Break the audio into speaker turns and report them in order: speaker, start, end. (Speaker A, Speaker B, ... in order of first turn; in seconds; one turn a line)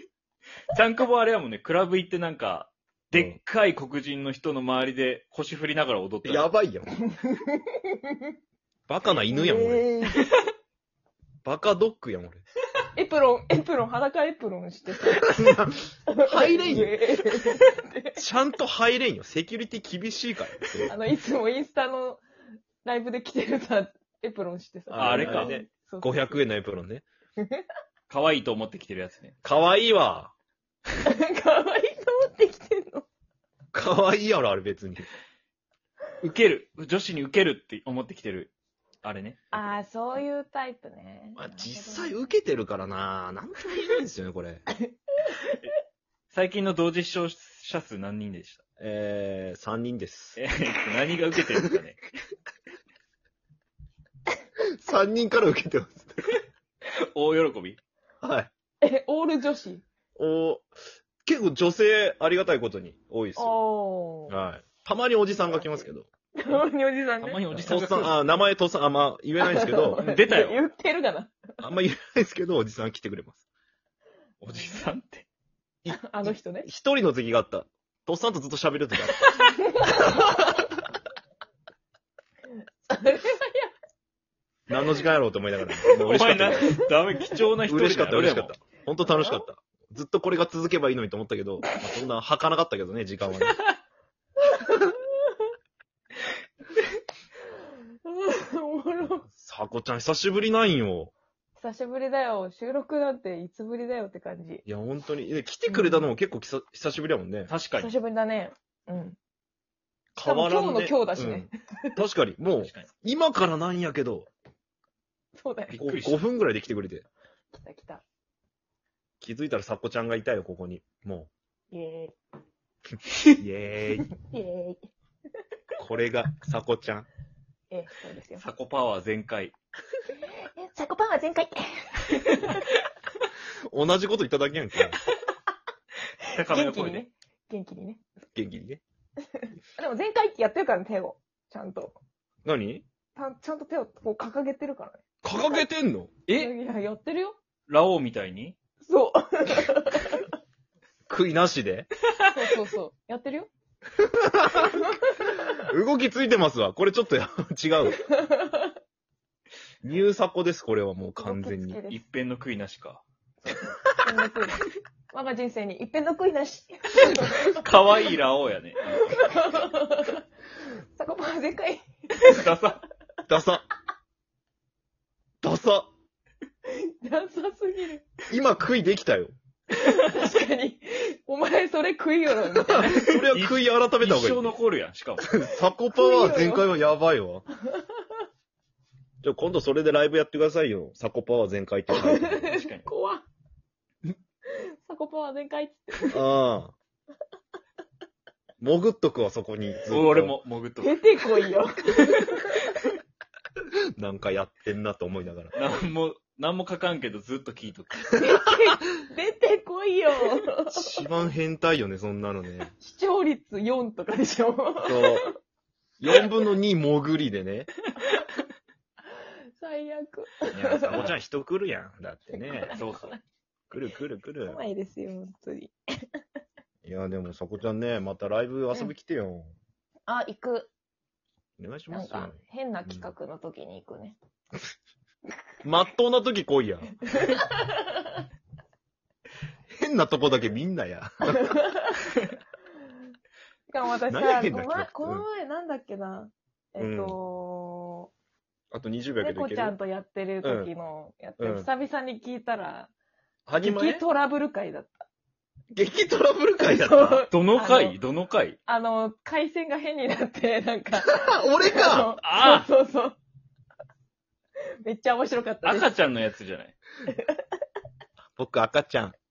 Speaker A: 0.7-6.5
Speaker B: 6.2-6.9
Speaker C: 7.0-8.3
Speaker B: 8.9-9.9
Speaker C: 9.3-10.3
Speaker B: 11.4-12.4
Speaker C: 12.9-18.2
Speaker B: 15.1-17.0
Speaker B: 18.2-20.9
Speaker C: 20.9-22.2
Speaker C: 22.8-26.4
Speaker B: 24.9-27.1
Speaker A: 24.9-25.6
Speaker C: 27.4-27.6
Speaker A: 28.1-29.4
Speaker B: 29.4-30.3
Speaker C: 31.0-33.1
Speaker B: 33.7-35.1
Speaker A: 36.2-38.5
Speaker A: 39.0-39.6
Speaker C: 39.5-42.3
Speaker B: 41.4-44.6
Speaker A: 46.3-48.6
Speaker B: 48.8-50.4
Speaker A: 50.4-52.0
Speaker B: 54.6-56.4
Speaker A: 56.9-57.8
Speaker B: 58.2-58.5
Speaker C: 58.8-59.8
Speaker B: 60.2-60.7
Speaker B: 61.2-63.6
Speaker C: 63.4-64.4
Speaker B: 64.3-66.1
Speaker C: 65.3-67.7
Speaker A: 67.2-68.2
Speaker B: 67.6-70.0
Speaker C: 69.4-71.5
Speaker A: 70.0-70.6
Speaker B: 71.6-73.4
Speaker A: 74.4-75.3
Speaker C: 74.5-74.8
Speaker B: 75.8-79.3
Speaker C: 75.9-76.7
Speaker C: 79.3-80.7
Speaker C: 82.8-83.7
Speaker B: 84.7-86.8
Speaker A: 85.9-88.5
Speaker B: 87.7-93.6
Speaker C: 89.0-89.5
Speaker C: 94.4-95.4
Speaker C: 98.0-99.3
Speaker B: 99.3-101.1
Speaker C: 101.6-104.6
Speaker B: 104.7-107.5
Speaker C: 105.7-106.1
Speaker A: 107.5-107.9
Speaker C: 107.8-109.2
Speaker B: 110.2-114.3
Speaker C: 110.2-112.0
Speaker A: 112.6-112.9
Speaker C: 115.3-115.8
Speaker A: 115.7-116.2
Speaker B: 115.8-117.0
Speaker C: 117.6-118.0
Speaker B: 119.2-121.3
Speaker C: 121.7-122.2
Speaker B: 123.4-124.1
Speaker C: 124.1-124.8
Speaker B: 125.8-127.1
Speaker C: 127.7-128.5
Speaker A: 128.4-129.5
Speaker C: 130.1-132.7
Speaker B: 133.7-135.0
Speaker A: 136.3-137.1
Speaker C: 136.3-138.0
Speaker B: 138.3-138.8
Speaker C: 139.4-142.0
Speaker B: 142.4-142.8
Speaker C: 143.2-145.6
Speaker B: 145.2-146.2
Speaker A: 146.3-146.5
Speaker C: 146.3-147.4
Speaker A: 147.7-148.6
Speaker C: 148.8-150.3
Speaker B: 151.1-151.9
Speaker A: 152.2-152.6
Speaker C: 152.3-153.5
Speaker B: 154.0-154.8
Speaker C: 154.5-155.5
Speaker B: 155.5-158.0
Speaker C: 158.0-158.7
Speaker B: 159.8-161.8
Speaker C: 161.2-162.0
Speaker A: 161.9-163.0
Speaker C: 163.9-167.7
Speaker A: 167.5-169.2
Speaker C: 168.9-170.2
Speaker C: 171.0-172.4
Speaker A: 172.2-172.8
Speaker B: 173.3-173.6
Speaker B: 175.4-175.9
Speaker C: 176.7-178.1
Speaker B: 178.3-179.3
Speaker C: 179.7-183.0
Speaker A: 182.7-185.3
Speaker B: 182.8-184.6
Speaker B: 185.2-187.4
Speaker C: 185.9-186.7
Speaker C: 187.7-188.0
Speaker B: 189.2-192.5
Speaker C: 191.9-193.2
Speaker A: 192.5-192.9
Speaker C: 194.5-196.2
Speaker B: 196.1-196.7
Speaker B: 198.6-200.3
Speaker A: 199.9-202.9
Speaker C: 200.8-202.7
Speaker B: 204.0-205.6
Speaker A: 205.6-208.2
Speaker C: 208.2-211.0
Speaker B: 210.7-212.7
Speaker C: 212.8-215.3
Speaker B: 214.8-215.3
Speaker B: 216.0-217.7
Speaker C: 219.6-221.1
Speaker B: 220.5-222.7
Speaker C: 222.3-223.2
Speaker A: 222.7-223.1
Speaker B: 223.7-224.6
Speaker C: 224.4-225.7
Speaker B: 226.8-229.5
Speaker C: 230.1-230.7
Speaker B: 231.6-233.1
Speaker C: 231.9-234.2
Speaker B: 235.6-237.0
Speaker C: 237.1-238.2
Speaker B: 239.7-241.6
Speaker C: 241.3-242.0
Speaker C: 243.7-248.1
Speaker B: 244.1-245.2
Speaker B: 246.8-247.2
Speaker B: 248.7-249.8
Speaker C: 249.2-252.9
Speaker B: 250.4-250.7
Speaker B: 251.4-251.7
Speaker B: 253.5-254.0
Speaker C: 253.6-255.1
Speaker B: 255.7-257.3
Speaker C: 256.6-258.0
Speaker A: 257.3-258.6
Speaker C: 258.7-263.2
Speaker B: 261.0-262.2
Speaker A: 262.2-262.7
Speaker C: 264.8-265.9
Speaker A: 265.6-266.8
Speaker C: 267.1-267.5
Speaker B: 268.4-269.2